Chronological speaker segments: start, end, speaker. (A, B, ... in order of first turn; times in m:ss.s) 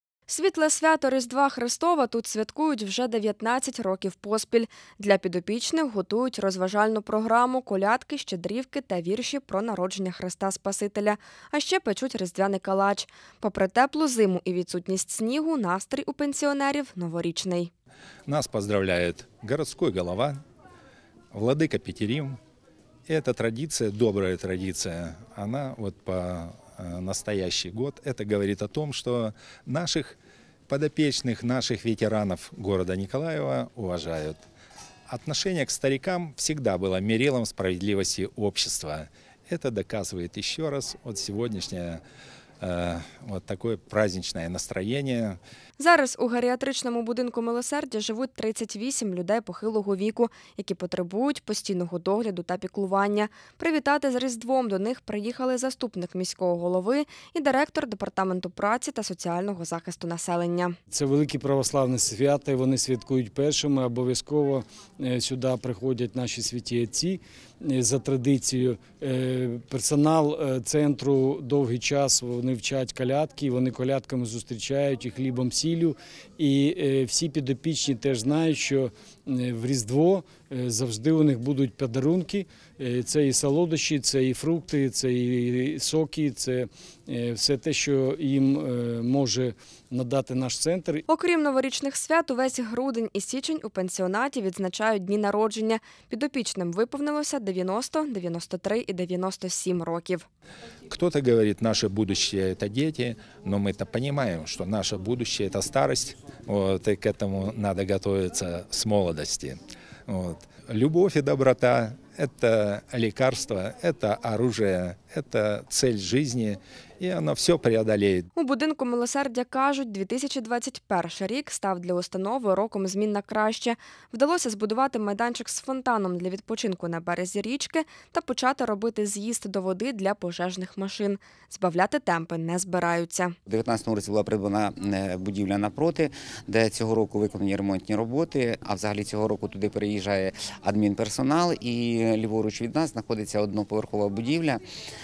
0:00.3-0:17.7 A
0:18.3-0:20.4 B
0:21.3-0:22.4 B
0:23.1-0:30.2 B
0:30.7-0:34.4 B
0:35.1-0:42.0 B
0:42.6-0:45.4 B
0:45.8-1:00.8 A
1:00.9-1:31.0 C
1:31.1-1:40.2 A
1:40.9-1:58.3 B
1:58.4-2:13.3 A
2:13.4-2:24.6 D